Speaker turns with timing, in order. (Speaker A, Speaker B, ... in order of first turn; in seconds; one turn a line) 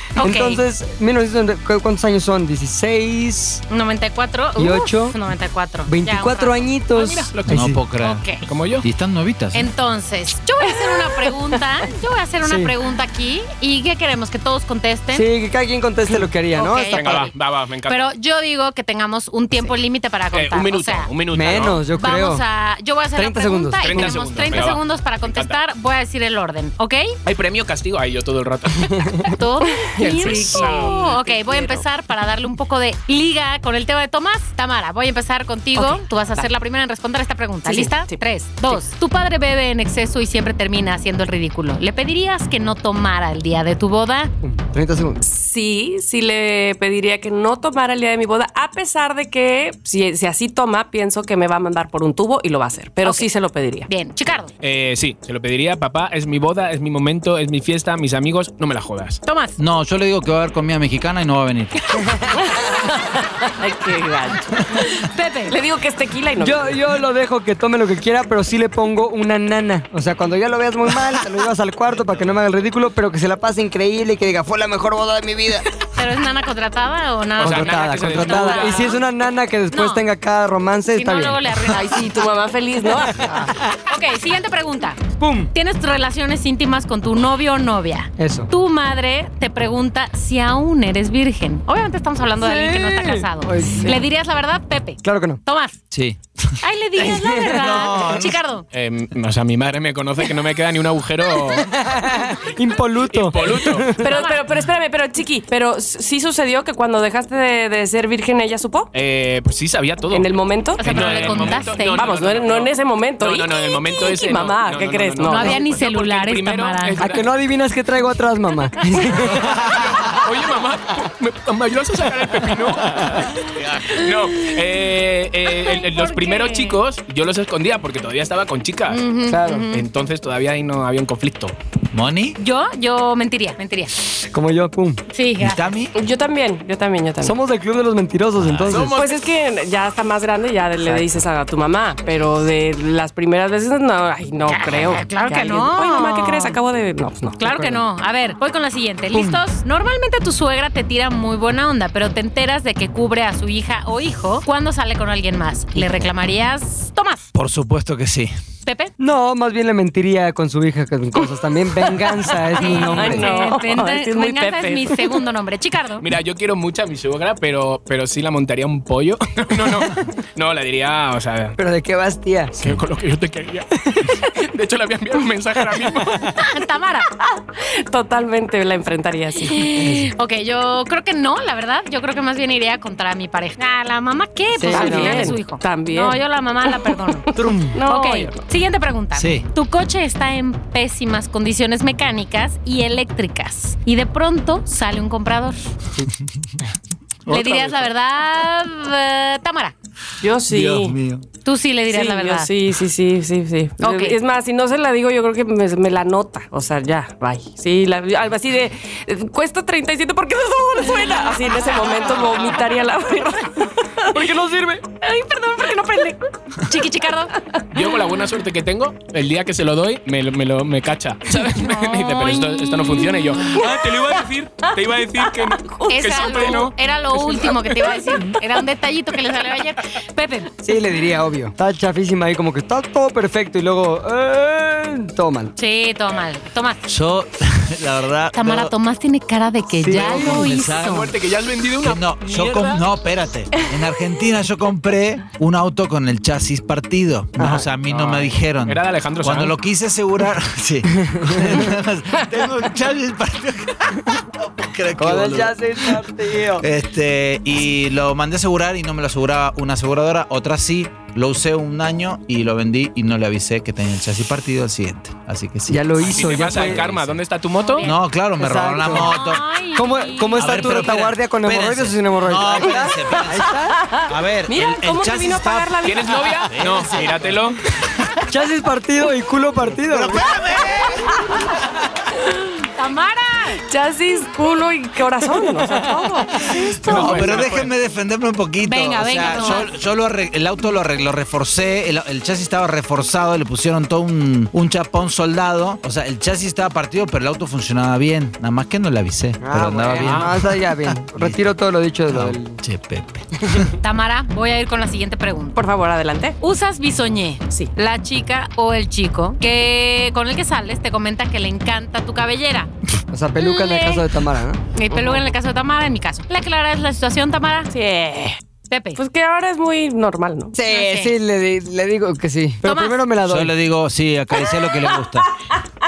Speaker A: 0.1-0.6
Speaker B: 0.2-3.6
Speaker A: 3.7-6.7
Speaker B: 4.6-5.2
Speaker B: 5.9-7.8
Speaker C: 6.9-7.6
Speaker D: 7.5-8.3
Speaker A: 8.0-8.5
Speaker C: 8.4-8.8
Speaker D: 8.8-9.7
Speaker A: 9.5-15.3
Speaker E: 10.7-11.3
Speaker B: 12.4-12.7
Speaker B: 15.1-17.3
Speaker A: 16.5-17.3
Speaker C: 16.9-18.0
Speaker A: 17.9-21.1
Speaker C: 20.3-21.8
Speaker B: 21.3-22.4
Speaker A: 21.9-27.1
Speaker B: 23.1-24.2
Speaker C: 23.8-25.6
Speaker C: 27.2-29.2
Speaker B: 28.9-29.2
Speaker A: 29.2-44.3
Speaker E: 29.8-31.8
Speaker C: 30.0-31.0
Speaker E: 35.8-36.5
Speaker E: 37.6-38.8
Speaker B: 44.4-45.2
Speaker E: 45.2-53.9
Speaker A: 53.0-53.3
Speaker A: 53.9-54.5
Speaker C: 54.6-59.2
Speaker A: 59.2-59.6
Speaker D: 59.6-61.8
Speaker E: 62.3-66.8
Speaker A: 64.8-65.5
Speaker B: 66.4-75.7
Speaker C: 72.0-72.3
Speaker A: 76.0-79.0
Speaker C: 77.4-79.0
Speaker B: 77.4-81.4
Speaker A: 79.7-80.0
Speaker A: 80.9-82.0
Speaker E: 81.7-83.5
Speaker B: 83.1-83.6
Speaker A: 83.8-85.0
Speaker B: 85.2-85.5
Speaker A: 85.5-95.8
Speaker B: 88.2-88.5
Speaker B: 92.4-94.0
Speaker B: 95.0-95.4
Speaker D: 95.9-96.6
Speaker A: 96.6-98.7
Speaker B: 97.0-97.6
Speaker D: 97.5-98.4
Speaker C: 98.7-101.7
Speaker B: 101.5-104.0
Speaker C: 103.1-103.9
Speaker E: 104.0-108.9
Speaker A: 104.0-104.4
Speaker C: 108.9-117.3
Speaker E: 110.1-115.6
Speaker A: 110.8-112.1
Speaker A: 115.2-117.1
Speaker B: 117.0-119.7
Speaker D: 119.4-120.0
Speaker C: 119.6-129.1
Speaker D: 123.6-123.8
Speaker A: 125.5-126.8
Speaker A: 128.9-129.8
Speaker B: 129.3-129.7
Speaker C: 129.7-131.6
Speaker D: 131.9-132.4
Speaker A: 132.4-134.0
Speaker B: 134.3-135.0
Speaker A: 135.1-135.7
Speaker D: 135.4-135.9
Speaker E: 135.9-137.4
Speaker B: 137.2-138.9
Speaker D: 138.3-138.9
Speaker C: 138.7-139.2
Speaker E: 138.9-147.4
Speaker B: 140.8-141.2
Speaker A: 144.5-146.6
Speaker A: 147.4-157.2
Speaker B: 147.4-147.8
Speaker B: 149.1-149.4
Speaker B: 155.7-156.1
Speaker D: 157.3-158.3
Speaker A: 158.6-158.9
Speaker B: 159.0-163.3
Speaker E: 161.9-165.2
Speaker A: 162.5-166.1
Speaker C: 166.0-171.6
Speaker B: 171.6-172.6
Speaker C: 172.6-176.3
Speaker A: 176.3-177.1
Speaker E: 177.3-179.7
Speaker A: 179.5-187.3
Speaker B: 179.8-180.1
Speaker B: 184.6-185.4
Speaker E: 184.7-188.4
Speaker B: 187.3-187.8
Speaker A: 187.8-195.6
Speaker D: 189.1-189.4
Speaker D: 196.2-196.5
Speaker A: 197.3-199.7
Speaker C: 197.3-197.8
Speaker E: 200.2-201.0
Speaker D: 200.5-201.2
Speaker A: 201.4-202.5
Speaker E: 201.9-216.2
Speaker A: 203.8-204.2
Speaker B: 214.1-214.8
Speaker A: 216.6-217.3
Speaker E: 217.4-217.9
Speaker C: 217.7-226.7
Speaker E: 221.6-226.6
Speaker A: 221.9-222.4
Speaker A: 225.9-230.5
Speaker B: 230.6-235.5
Speaker A: 235.6-236.8
Speaker D: 236.8-238.7
Speaker A: 238.3-241.1
Speaker B: 239.8-240.5
Speaker D: 239.9-241.1
Speaker C: 240.7-242.8
Speaker D: 241.8-256.0
Speaker B: 247.4-247.7
Speaker C: 247.9-249.5
Speaker B: 255.0-256.6
Speaker D: 256.5-267.2
Speaker B: 265.7-266.8
Speaker C: 266.0-267.9
Speaker A: 267.6-268.0
Speaker D: 267.8-269.4
Speaker B: 268.4-269.2
Speaker A: 268.9-271.0
Speaker B: 269.7-273.8
Speaker D: 270.4-275.8
Speaker E: 273.5-276.5
Speaker C: 275.8-277.6
Speaker D: 276.5-278.2
Speaker B: 278.3-280.3
Speaker D: 279.7-281.7
Speaker A: 282.7-283.6
Speaker E: 283.6-287.4
Speaker D: 286.4-301.5
Speaker C: 286.8-287.7
Speaker A: 288.6-289.7
Speaker B: 299.4-302.6
Speaker C: 299.9-300.3
Speaker D: 302.1-303.7
Speaker A: 303.8-305.6
Speaker E: 305.5-306.4
Speaker A: 306.4-312.7
Speaker B: 313.1-314.6
Speaker A: 313.4-314.1
Speaker A: 314.7-317.7
Speaker E: 314.9-315.2
Speaker E: 317.7-318.4
Speaker A: 318.7-319.0
Speaker E: 318.9-320.6
Speaker B: 320.5-323.5
Speaker A: 320.6-321.1
Speaker A: 322.6-323.0
Speaker D: 323.2-325.3
Speaker E: 324.4-325.0